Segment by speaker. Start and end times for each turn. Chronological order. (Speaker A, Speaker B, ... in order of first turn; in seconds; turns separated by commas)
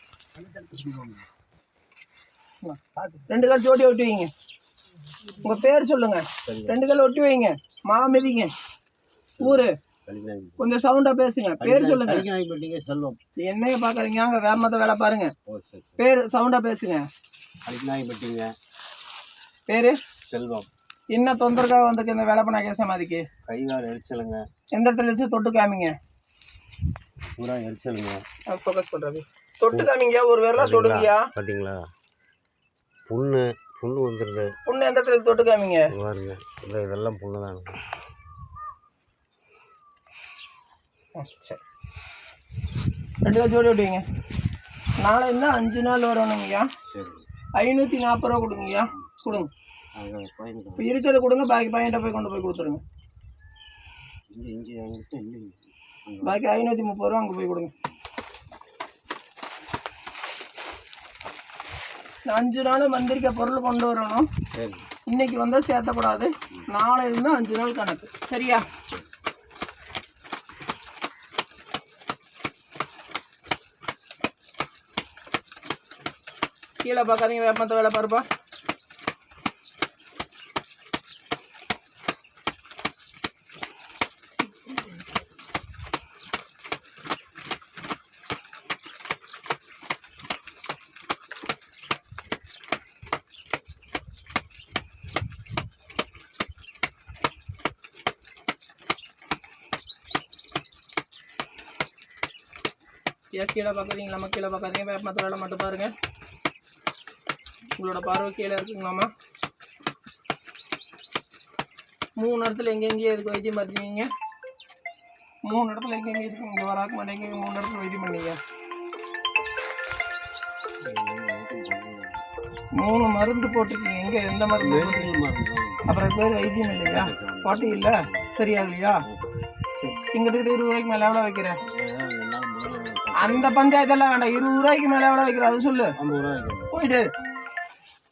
Speaker A: 0.3-1.2, Speaker B: 2.6-4.3, Speaker A: 3.0-3.2, Speaker B: 5.4-8.5, Speaker A: 6.5-6.8, Speaker B: 9.4-9.7, Speaker A: 9.4-10.6, Speaker B: 10.6-12.2, Speaker A: 11.6-13.2, Speaker B: 13.4-15.3, Speaker A: 15.4-16.0, Speaker B: 16.0-17.0, Speaker A: 17.6-18.5, Speaker B: 19.7-20.0, Speaker A: 20.3-20.7, Speaker B: 21.1-23.2, Speaker A: 23.4-24.4, Speaker B: 24.7-25.9, Speaker A: 27.3-28.2, Speaker B: 28.5-31.3, Speaker A: 30.6-31.9, Speaker A: 33.1-34.5, Speaker B: 34.7-35.9, Speaker A: 35.9-37.8, Speaker B: 41.2-41.6, Speaker B: 43.2-44.0, Speaker B: 45.0-46.7, Speaker A: 46.9-47.3, Speaker B: 47.6-49.5, Speaker A: 49.1-49.4, Speaker A: 50.0-50.9, Speaker B: 50.8-52.8, Speaker A: 54.3-56.4, Speaker B: 56.2-57.7, Speaker B: 62.3-64.3, Speaker A: 64.5-64.8, Speaker B: 65.1-68.7, Speaker B: 76.8-78.2, Speaker B: 103.4-105.9, Speaker B: 107.8-109.1, Speaker B: 112.2-114.1, Speaker B: 115.5-118.4, Speaker A: 120.8-122.2, Speaker B: 122.8-125.1, Speaker A: 124.6-125.9, Speaker B: 125.9-129.0, Speaker A: 126.8-128.3, Speaker A: 129.0-129.3, Speaker B: 129.8-131.6, Speaker A: 131.7-133.6, Speaker B: 133.1-135.9, Speaker A: 135.9-136.7, Speaker B: 136.7-137.1